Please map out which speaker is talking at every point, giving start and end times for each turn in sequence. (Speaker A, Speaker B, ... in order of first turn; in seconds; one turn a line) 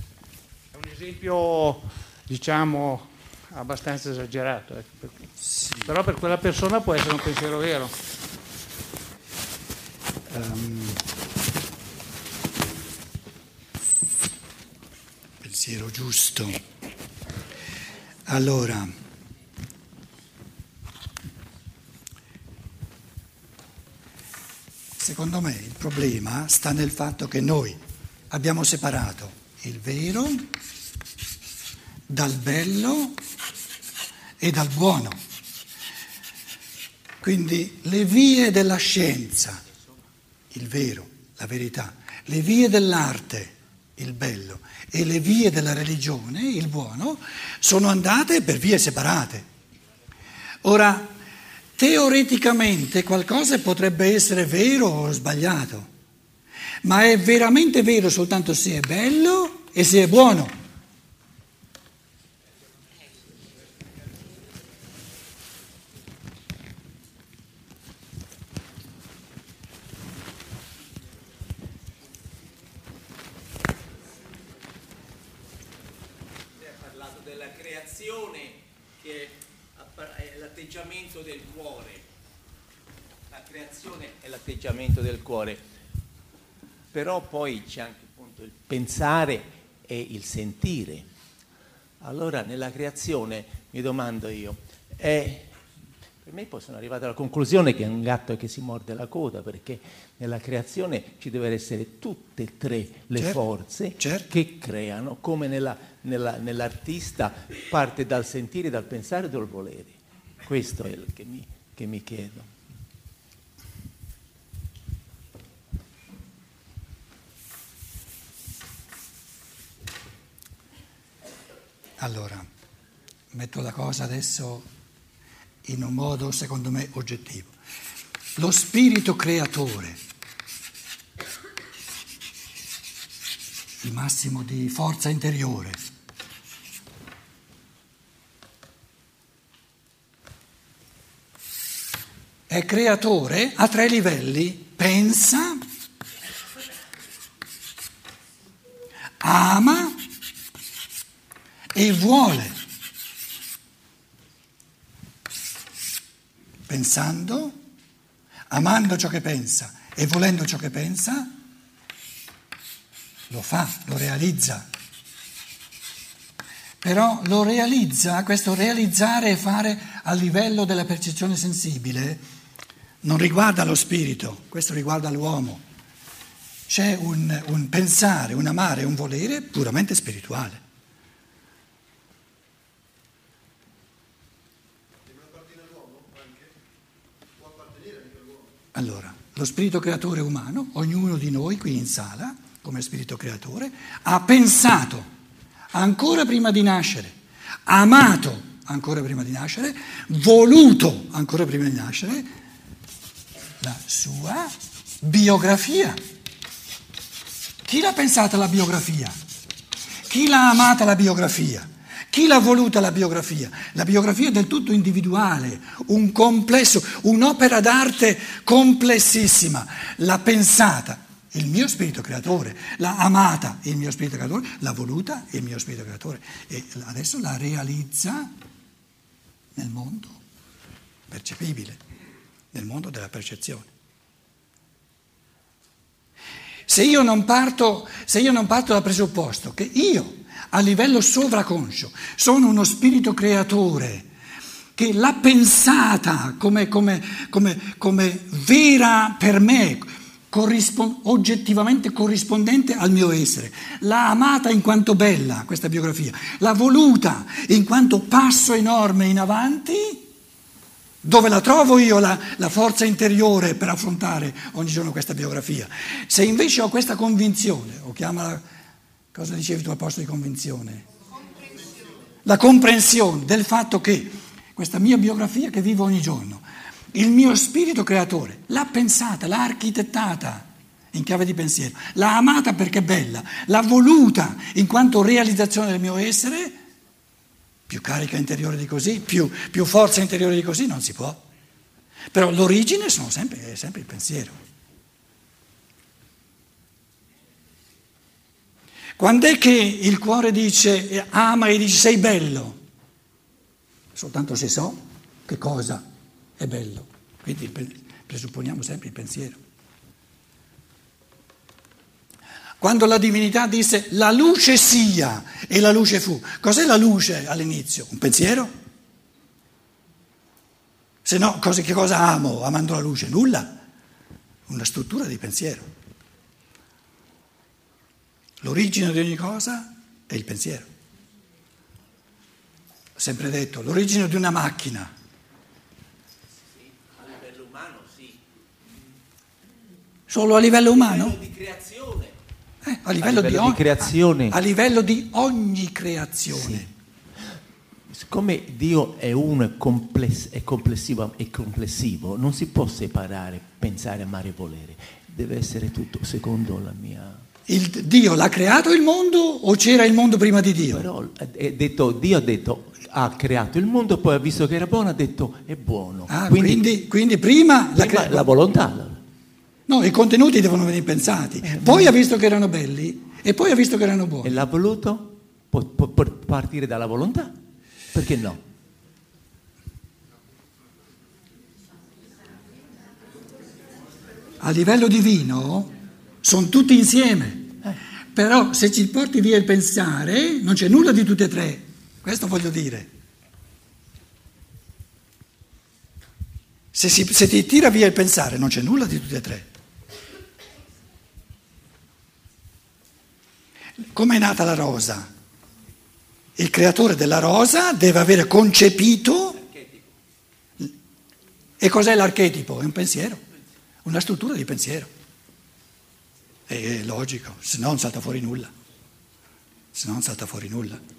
Speaker A: 0.8-5.1
Speaker B: 5.4-5.9
Speaker A: 5.8-7.9
Speaker B: 10.3-11.0
Speaker B: 15.4-16.6
Speaker B: 18.3-18.9
Speaker B: 25.0-27.8
Speaker B: 28.3-30.5
Speaker B: 32.1-33.2
Speaker B: 34.4-35.2
Speaker B: 37.2-39.6
Speaker B: 40.5-49.5
Speaker B: 50.6-51.1
Speaker B: 51.8-55.9
Speaker B: 56.8-60.6
Speaker C: 76.8-82.0
Speaker C: 83.3-85.6
Speaker C: 86.9-91.1
Speaker C: 92.0-95.5
Speaker C: 96.2-112.5
Speaker B: 103.2-103.4
Speaker B: 104.0-104.3
Speaker B: 122.0-122.5
Speaker B: 123.3-124.7
Speaker B: 125.6-127.5
Speaker B: 128.4-130.0
Speaker B: 133.8-135.8
Speaker B: 142.5-145.6
Speaker B: 149.2-150.0
Speaker B: 151.7-152.6
Speaker B: 156.7-157.6
Speaker B: 158.5-161.3
Speaker B: 163.3-164.7
Speaker B: 166.8-172.2
Speaker B: 173.0-175.6
Speaker B: 176.7-180.6
Speaker B: 188.7-195.1
Speaker B: 195.7-197.1
Speaker B: 197.7-202.3
Speaker B: 203.6-206.0
Speaker B: 207.7-209.2
Speaker B: 210.1-228.3
Speaker B: 229.6-230.2
Speaker B: 231.1-231.8
Speaker B: 232.5-233.7
Speaker B: 236.7-244.1
Speaker B: 244.8-260.1
Speaker B: 261.0-268.4
Speaker B: 269.1-270.9
Speaker B: 272.2-286.6
Speaker B: 287.7-291.2
Speaker B: 292.1-294.4
Speaker B: 299.0-302.6
Speaker B: 303.9-305.8
Speaker B: 306.4-309.4
Speaker B: 312.6-318.5
Speaker B: 321.1-323.6
Speaker B: 324.5-325.7
Speaker B: 328.4-330.7
Speaker B: 333.0-334.9
Speaker C: 336.9-338.2
Speaker B: 340.1-341.2
Speaker C: 340.7-342.1
Speaker B: 342.6-346.7
Speaker C: 343.0-344.4
Speaker C: 346.4-346.7
Speaker C: 347.9-357.2
Speaker B: 357.5-360.9
Speaker C: 360.7-366.6
Speaker B: 366.1-368.4
Speaker C: 367.8-369.0
Speaker B: 369.7-374.4
Speaker C: 371.6-371.9
Speaker C: 374.2-377.4
Speaker C: 377.9-378.4
Speaker B: 384.4-385.7
Speaker B: 386.2-387.6
Speaker B: 388.1-392.9
Speaker B: 396.7-399.5
Speaker B: 403.9-405.1
Speaker B: 406.4-409.4
Speaker B: 411.6-413.2
Speaker B: 413.9-414.9
Speaker B: 416.5-418.5
Speaker B: 419.7-420.8